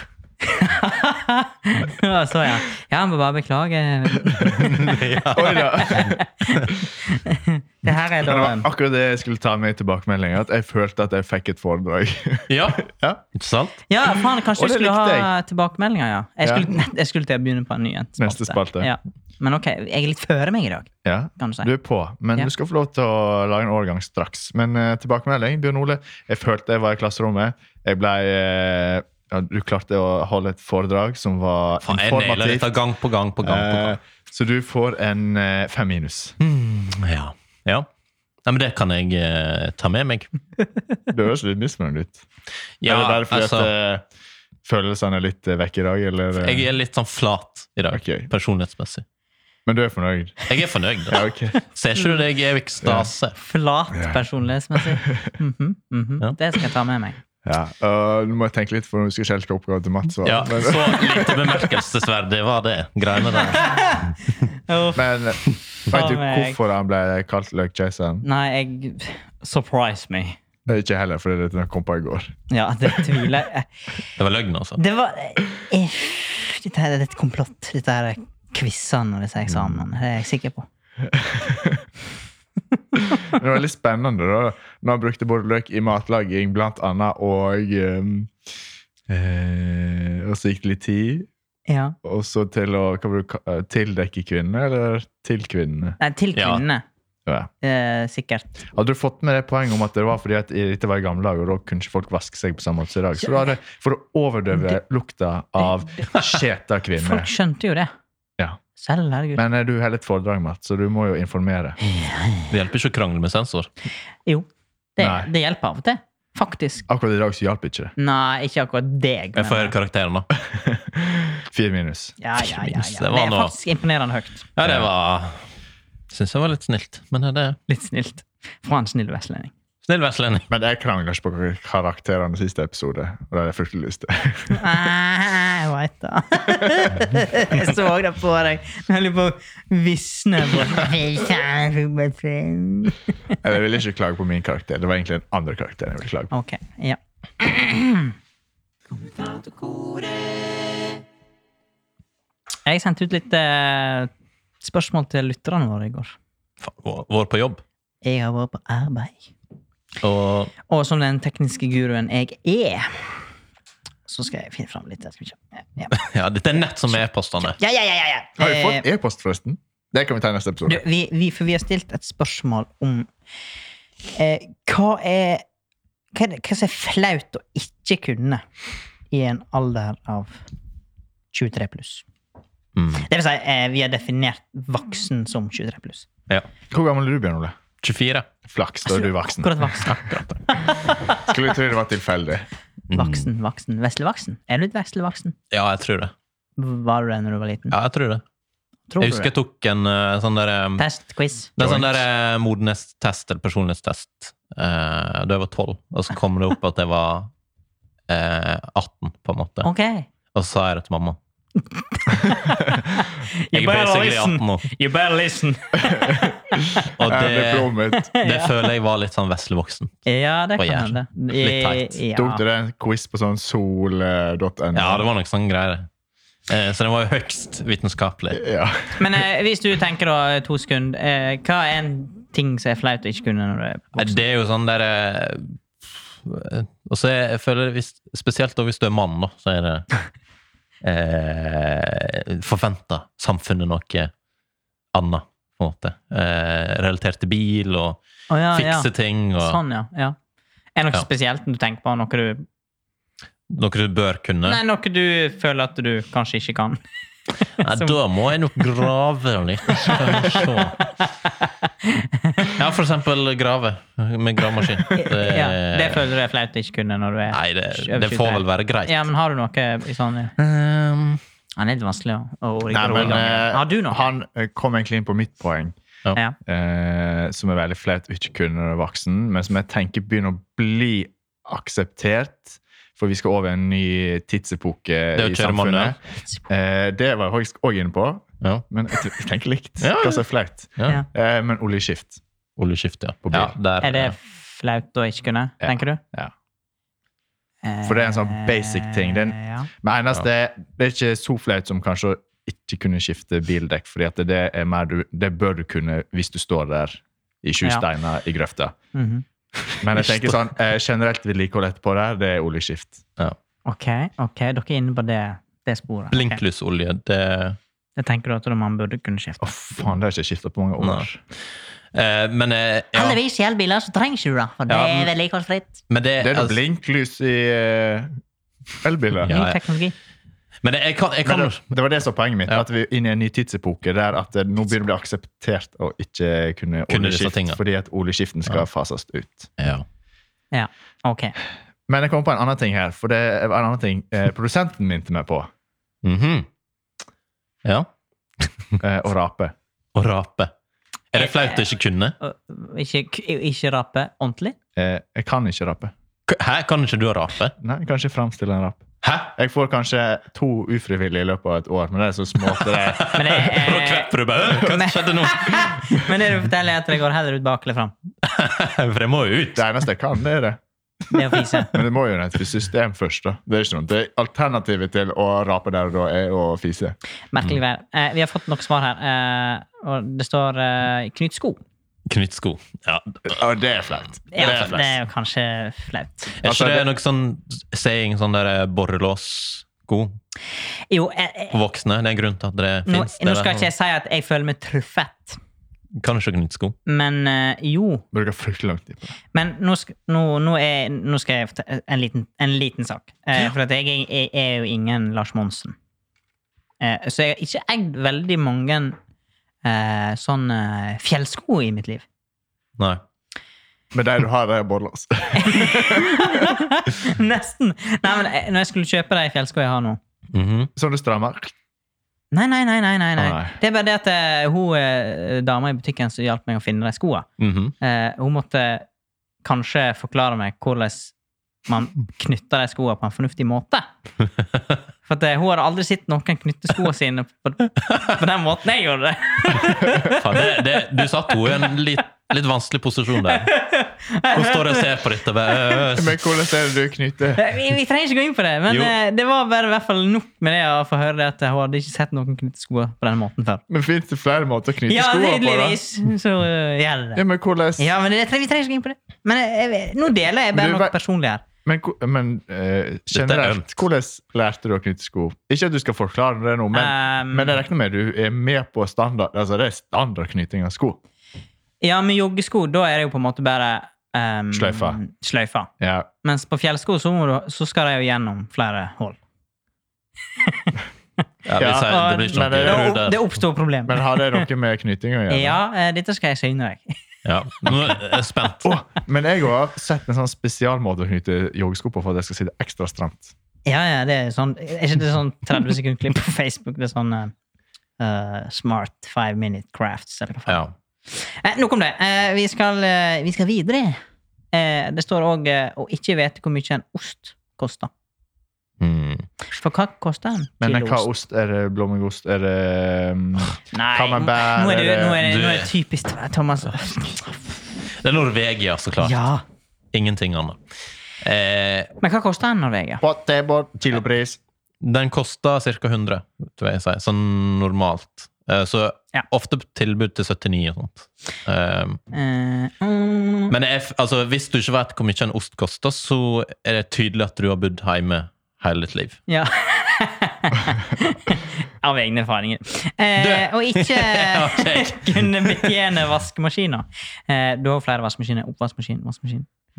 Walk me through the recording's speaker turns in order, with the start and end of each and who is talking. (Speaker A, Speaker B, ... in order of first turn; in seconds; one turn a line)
Speaker A: 0.4-8.7
Speaker B: 4.4-6.7
Speaker C: 5.3-6.2
Speaker C: 8.2-13.2
Speaker B: 12.5-13.8
Speaker A: 13.9-21.7
Speaker C: 14.5-15.3
Speaker C: 16.4-16.7
Speaker C: 18.2-18.9
Speaker C: 21.0-32.7
Speaker B: 31.8-34.0
Speaker C: 33.4-36.4
Speaker B: 36.4-37.9
Speaker B: 38.4-40.3
Speaker C: 41.1-42.2
Speaker B: 42.8-43.7
Speaker C: 42.8-44.0
Speaker C: 44.6-46.7
Speaker B: 46.4-49.0
Speaker C: 47.9-48.3
Speaker C: 49.6-50.5
Speaker B: 50.5-53.4
Speaker C: 51.1-51.6
Speaker C: 52.8-53.1
Speaker A: 53.4-57.2
Speaker C: 54.8-55.3
Speaker C: 57.4-61.5
Speaker B: 60.2-64.0
Speaker A: 63.3-65.0
Speaker C: 64.9-68.2
Speaker A: 65.9-66.6
Speaker A: 68.2-70.4
Speaker C: 70.7-72.3
Speaker A: 72.5-73.7
Speaker B: 74.2-74.8
Speaker A: 74.8-80.7
Speaker C: 81.0-81.8
Speaker C: 83.0-88.3
Speaker C: 89.1-91.3
Speaker A: 91.7-92.0
Speaker C: 92.0-96.0
Speaker A: 96.0-96.8
Speaker B: 96.3-96.6
Speaker A: 97.6-98.5
Speaker C: 98.7-107.3
Speaker A: 106.9-107.9
Speaker A: 108.8-109.4
Speaker C: 109.3-111.8
Speaker A: 111.8-112.5
Speaker B: 112.5-113.7
Speaker A: 114.2-116.8
Speaker C: 115.0-115.3
Speaker C: 116.9-117.9
Speaker A: 118.0-119.7
Speaker B: 119.3-120.3
Speaker C: 120.4-122.1
Speaker A: 122.2-124.5
Speaker B: 122.4-123.5
Speaker B: 124.5-125.5
Speaker C: 124.6-124.9
Speaker B: 126.1-127.6
Speaker A: 127.7-129.5
Speaker B: 129.8-130.5
Speaker C: 130.5-134.6
Speaker A: 134.5-143.3
Speaker C: 143.4-146.3
Speaker A: 146.3-148.1
Speaker A: 149.3-150.1
Speaker A: 152.7-154.1
Speaker A: 154.6-156.2
Speaker B: 156.6-157.6
Speaker A: 158.0-159.3
Speaker B: 160.0-160.5
Speaker A: 160.7-163.1
Speaker A: 164.1-165.9
Speaker B: 165.9-167.6
Speaker A: 167.6-168.8
Speaker C: 168.4-170.8
Speaker A: 170.7-173.1
Speaker A: 174.2-175.4
Speaker A: 176.1-178.4
Speaker A: 179.1-180.4
Speaker A: 181.3-182.0
Speaker B: 182.8-183.1
Speaker A: 182.9-186.1
Speaker C: 186.7-187.6
Speaker B: 187.8-188.3
Speaker C: 188.4-189.7
Speaker A: 188.9-191.3
Speaker B: 189.8-190.4
Speaker C: 191.2-192.4
Speaker B: 192.9-193.2
Speaker A: 192.9-195.3
Speaker B: 195.5-196.1
Speaker A: 196.6-197.7
Speaker B: 197.7-198.2
Speaker A: 198.9-199.3
Speaker B: 199.0-200.8
Speaker A: 200.8-201.5
Speaker B: 201.6-207.3
Speaker C: 201.6-202.0
Speaker B: 208.1-209.7
Speaker A: 209.6-210.1
Speaker B: 210.3-211.2
Speaker A: 211.9-216.9
Speaker B: 213.5-214.7
Speaker B: 217.0-220.0
Speaker C: 217.0-218.1
Speaker A: 217.9-218.7
Speaker A: 220.1-222.4
Speaker B: 220.6-222.0
Speaker C: 222.1-225.1
Speaker B: 224.7-225.9
Speaker B: 226.5-228.4
Speaker C: 228.3-229.1
Speaker A: 229.0-234.2
Speaker B: 233.9-235.6
Speaker B: 236.1-240.0
Speaker B: 240.8-244.1
Speaker B: 244.9-248.0
Speaker A: 248.3-250.2
Speaker B: 248.5-249.6
Speaker A: 250.8-252.4
Speaker B: 253.5-254.6
Speaker A: 254.4-256.8
Speaker A: 257.6-257.9
Speaker B: 257.6-260.9
Speaker A: 259.8-262.6
Speaker B: 262.4-266.1
Speaker A: 264.9-270.3
Speaker B: 267.3-269.1
Speaker B: 270.4-271.2
Speaker A: 271.6-274.1
Speaker C: 272.7-275.8
Speaker C: 276.4-292.2
Speaker B: 285.1-286.0
Speaker B: 289.8-291.0
Speaker B: 292.6-294.1
Speaker C: 293.2-293.5
Speaker A: 293.8-296.0
Speaker C: 295.6-296.3
Speaker A: 297.6-299.7
Speaker C: 297.8-308.7
Speaker A: 308.9-309.2
Speaker C: 309.8-313.0
Speaker A: 313.6-316.4
Speaker B: 316.1-317.6
Speaker A: 318.0-319.5
Speaker C: 319.4-321.2
Speaker B: 320.8-321.1
Speaker B: 321.9-323.2
Speaker A: 322.9-325.8
Speaker B: 324.7-325.1
Speaker B: 325.9-326.6
Speaker C: 326.2-328.1
Speaker C: 328.8-329.3
Speaker B: 329.2-329.6
Speaker A: 329.3-329.9
Speaker B: 330.6-331.6
Speaker C: 331.2-339.5
Speaker B: 336.9-337.6
Speaker B: 339.6-339.8
Speaker A: 340.5-341.3
Speaker C: 341.9-345.5
Speaker B: 346.0-346.5
Speaker B: 347.6-347.9
Speaker B: 348.4-348.8
Speaker C: 348.8-349.5
Speaker B: 349.9-350.5
Speaker B: 351.1-352.1
Speaker A: 351.1-351.7
Speaker A: 352.2-354.5
Speaker C: 354.8-355.9
Speaker B: 356.3-357.5
Speaker C: 357.6-363.1
Speaker B: 359.0-359.3
Speaker B: 362.5-366.1
Speaker A: 363.1-367.9
Speaker B: 368.2-369.7
Speaker C: 369.6-370.6
Speaker A: 371.1-371.8
Speaker C: 371.7-376.9
Speaker A: 377.3-381.6
Speaker B: 382.1-383.3
Speaker C: 383.2-384.9
Speaker A: 384.3-386.4
Speaker B: 384.4-384.8
Speaker B: 386.4-390.1
Speaker C: 386.4-386.9
Speaker A: 390.9-391.6
Speaker B: 391.5-393.7
Speaker A: 392.9-395.4
Speaker B: 395.9-396.8
Speaker A: 396.9-398.0
Speaker C: 398.1-399.1
Speaker A: 399.3-405.8
Speaker A: 406.8-409.0
Speaker A: 409.6-412.0
Speaker C: 413.9-416.6
Speaker A: 415.4-420.0
Speaker B: 420.3-420.7
Speaker C: 420.8-421.5
Speaker A: 422.3-427.3
Speaker C: 423.2-423.6
Speaker B: 427.4-427.7
Speaker A: 427.8-428.9
Speaker A: 429.4-431.1
Speaker A: 431.7-433.9
Speaker A: 435.1-440.6
Speaker B: 440.0-443.5
Speaker A: 443.3-445.0
Speaker B: 444.3-446.3
Speaker C: 445.9-447.4
Speaker A: 447.4-453.6
Speaker B: 448.7-448.9
Speaker C: 453.7-455.8
Speaker A: 454.9-457.2
Speaker C: 457.1-457.9
Speaker A: 457.8-461.4
Speaker C: 460.5-460.9
Speaker C: 461.6-471.0
Speaker B: 463.1-463.8
Speaker A: 466.7-467.5
Speaker A: 471.8-475.7
Speaker C: 474.5-475.0
Speaker C: 475.8-476.1
Speaker A: 476.2-479.2
Speaker A: 480.4-480.8
Speaker B: 481.4-483.3
Speaker C: 481.5-482.9
Speaker A: 481.6-484.4
Speaker C: 483.9-485.6
Speaker A: 485.3-487.0
Speaker B: 487.2-488.7
Speaker C: 488.6-493.3
Speaker A: 493.6-497.3
Speaker A: 498.0-504.0
Speaker A: 504.5-507.9
Speaker B: 508.8-509.3
Speaker A: 509.5-511.1
Speaker C: 510.6-515.2
Speaker A: 513.7-517.6
Speaker B: 515.2-515.7
Speaker B: 518.0-519.1
Speaker A: 519.0-519.4
Speaker B: 519.9-520.6
Speaker B: 521.2-521.9
Speaker A: 522.0-523.0
Speaker C: 523.0-524.4
Speaker B: 524.8-532.0
Speaker A: 532.1-533.5
Speaker B: 533.5-539.2
Speaker A: 539.3-549.5
Speaker B: 543.2-545.8